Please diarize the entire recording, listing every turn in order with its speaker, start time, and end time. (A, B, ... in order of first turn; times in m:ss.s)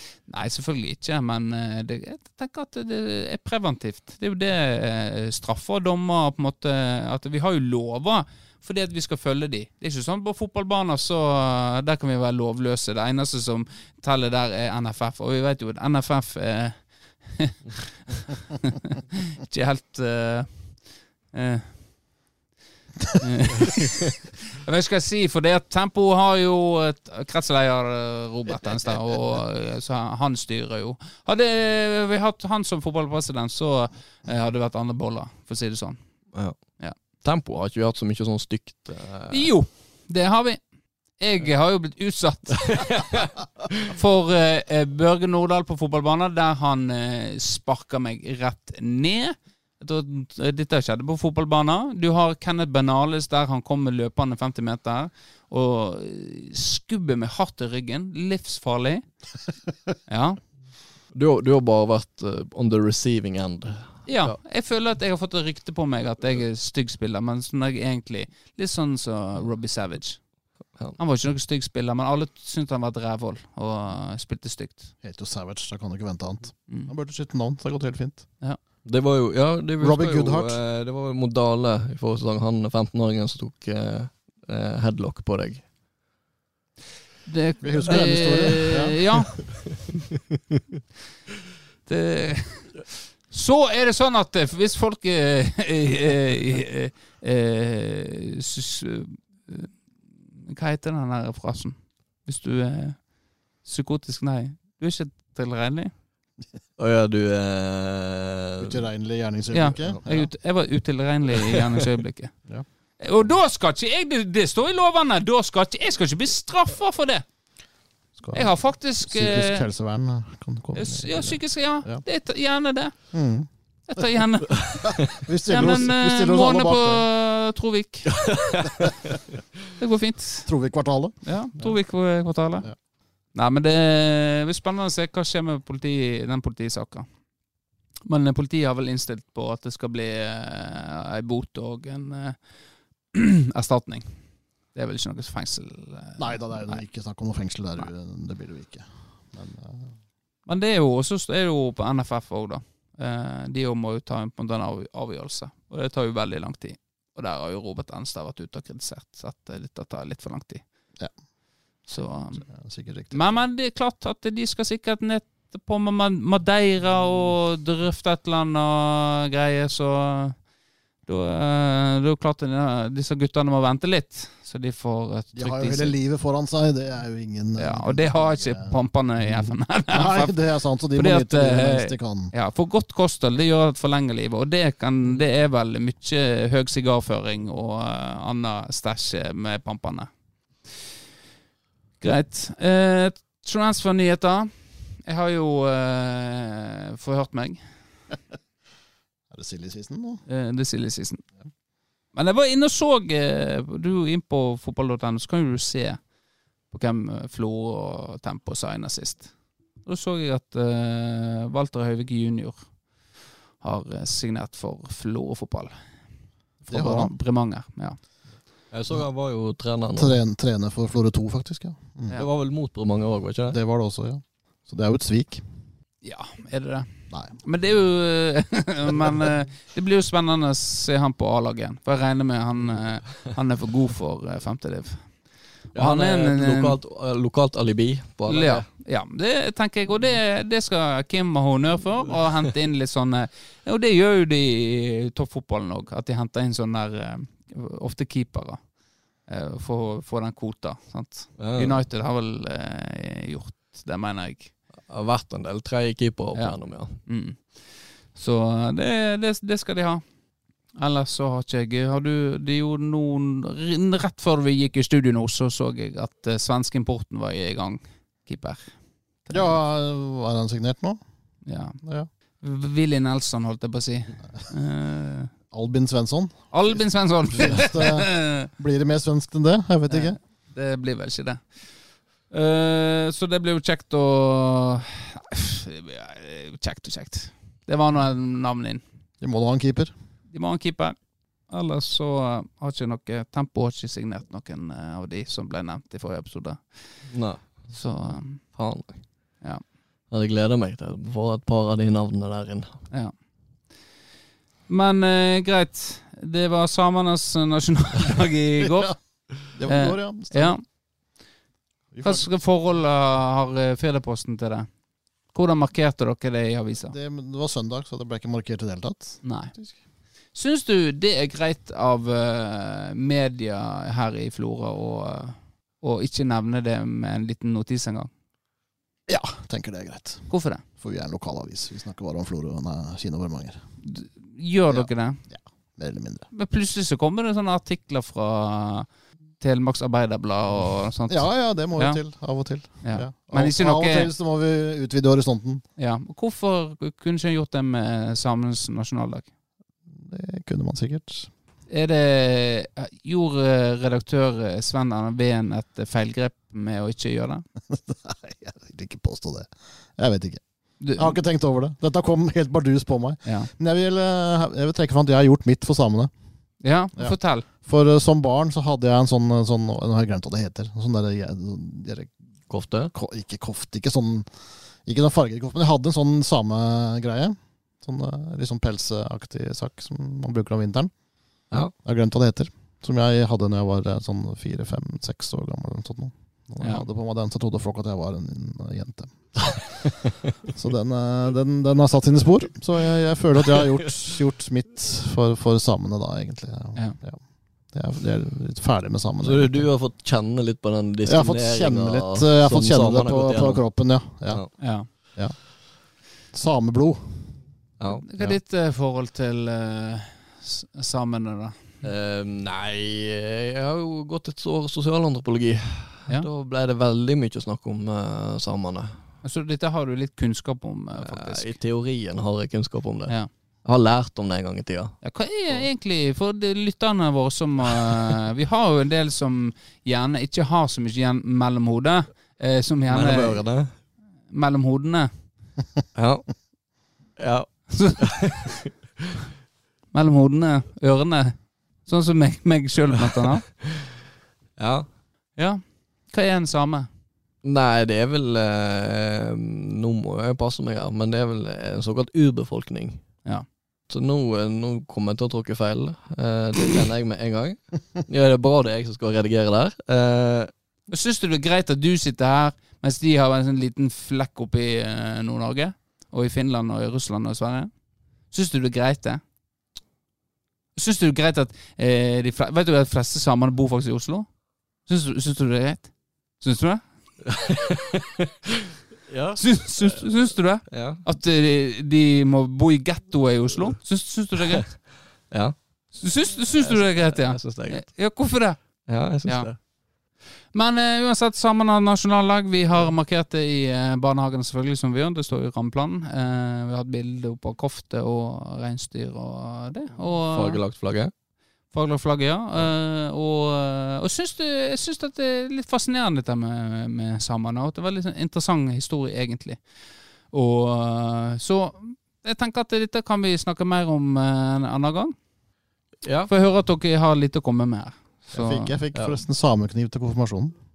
0:00.3-0:20.8 A
0:21.3-0:21.8 A
0:23.2-0:36.0 A
0:37.2-0:39.5 B
0:39.3-0:40.6 A
0:41.2-0:43.3 A
0:42.6-0:43.8 B
0:43.8-0:59.1 A
1:00.1-1:00.4 A
1:01.1-1:04.4 B
1:04.1-1:10.2 A
1:11.0-1:14.9 A
1:15.0-1:18.3 C
1:18.8-1:25.6 B
1:19.8-1:20.6 C
1:27.3-1:29.7 A
1:27.6-1:29.0 C
1:31.9-1:39.8 A
1:40.4-1:43.0 A
1:43.6-1:45.9 A
1:46.8-1:48.8 B
1:48.6-1:50.3 C
1:49.5-1:52.3 A
1:53.0-1:57.2 A
1:58.2-2:02.0 C
1:58.3-1:59.6 A
2:00.8-2:03.1 A
2:03.1-2:03.5 C
2:03.9-2:08.2 A
2:04.8-2:07.1 C
2:08.1-2:08.9 B
2:09.8-2:10.5 A
2:10.5-2:11.8 C
2:11.2-2:12.7 A
2:13.3-2:17.1 A
2:18.1-2:22.4 A
2:23.1-2:24.2 A
2:24.7-2:26.8 A
2:26.2-2:29.9 C
2:30.5-2:40.6 A
2:41.9-2:42.4 A
2:42.4-2:43.4 C
2:43.1-2:50.4 A
2:51.1-2:56.0 A
2:55.4-2:58.8 C
2:57.6-3:00.4 A
2:59.4-3:02.3 C
3:00.9-3:10.1 A
3:12.0-3:17.6 A
3:19.3-3:20.2 C
3:20.3-3:21.2 A
3:22.1-3:26.0 A
3:26.7-3:29.3 A
3:29.8-3:32.7 A
3:33.6-3:35.7 A
3:36.6-3:38.0 A
3:36.7-3:37.1 C
3:38.7-3:40.2 B
3:40.0-3:42.2 C
3:42.1-3:43.6 B
3:43.5-3:45.4 C
3:46.0-3:55.0 A
3:55.7-3:56.8 A
3:55.8-3:58.7 B
3:58.3-4:08.6 A
4:09.3-4:14.5 A
4:11.4-4:11.8 B
4:14.9-4:17.0 B
4:16.4-4:17.6 A
4:18.1-4:20.0 A
4:20.8-4:28.7 A
4:29.2-4:29.6 A
4:29.3-4:31.0 C
4:31.5-4:31.8 A
4:31.8-4:32.1 C
4:32.4-4:35.3 A
4:35.5-4:40.2 C
4:36.5-4:38.5 A
4:39.9-4:41.5 A
4:42.3-4:48.8 A
4:49.2-4:49.9 C
4:50.3-4:51.0 A
4:51.5-4:56.6 A
4:57.1-4:57.4 B
4:57.7-4:58.4 A
4:58.6-4:59.0 B
5:00.1-5:02.8 B
5:04.7-5:08.9 A
5:08.6-5:08.9 C
5:09.5-5:10.5 C
5:09.7-5:10.6 A
5:11.9-5:12.3 C
5:12.0-5:14.7 A
5:15.3-5:17.0 A
5:16.9-5:19.8 C
5:19.2-5:19.5 A
5:20.3-5:28.1 A
5:29.1-5:33.6 C
5:30.3-5:30.6 A
5:33.8-5:35.2 A
5:34.7-5:36.3 C
5:36.3-5:38.9 A
5:39.4-5:42.0 A
5:41.1-5:45.6 C
5:42.8-5:44.1 A
5:45.8-5:49.3 A
5:49.9-5:51.3 C
5:51.7-5:57.4 A
5:57.7-6:00.4 C
6:00.8-6:01.2 A
6:01.0-6:06.1 C
6:06.6-6:07.5 A
6:07.0-6:12.1 C
6:12.5-6:12.9 B
6:12.9-6:14.3 C
6:14.8-6:20.9 C
6:21.8-6:29.9 C
6:30.5-6:37.2 C
6:37.7-6:39.7 C
6:39.2-6:43.7 B
6:41.1-6:45.4 C
6:44.6-6:44.9 A
6:46.3-6:47.4 C
6:48.0-6:51.8 A
6:51.8-6:59.0 B
6:59.2-7:01.5 A
7:01.0-7:05.7 B
7:05.0-7:13.4 A
7:12.9-7:13.7 B
7:14.3-7:15.1 A
7:16.0-7:16.3 B
7:17.2-7:18.7 B
7:17.7-7:18.2 A
7:19.9-7:23.4 A
7:24.6-7:24.9 B
7:25.4-7:26.9 A
7:27.4-7:33.0 B
7:33.9-7:40.5 B
7:40.9-7:47.7 A
7:48.3-7:49.2 A
7:50.8-7:54.3 A
7:54.9-7:56.8 A
7:57.2-8:00.1 B
7:59.4-8:04.7 A
8:00.7-8:01.0 B
8:05.3-8:05.6 B
8:06.0-8:08.6 A
8:06.6-8:07.9 B
8:08.9-8:09.6 B
8:10.5-8:20.6 A
8:20.3-8:21.1 B
8:21.7-8:29.6 A
8:30.3-8:35.1 A
8:36.0-8:36.3 B
8:36.3-8:38.7 A
8:38.3-8:40.6 C
8:38.9-8:39.2 B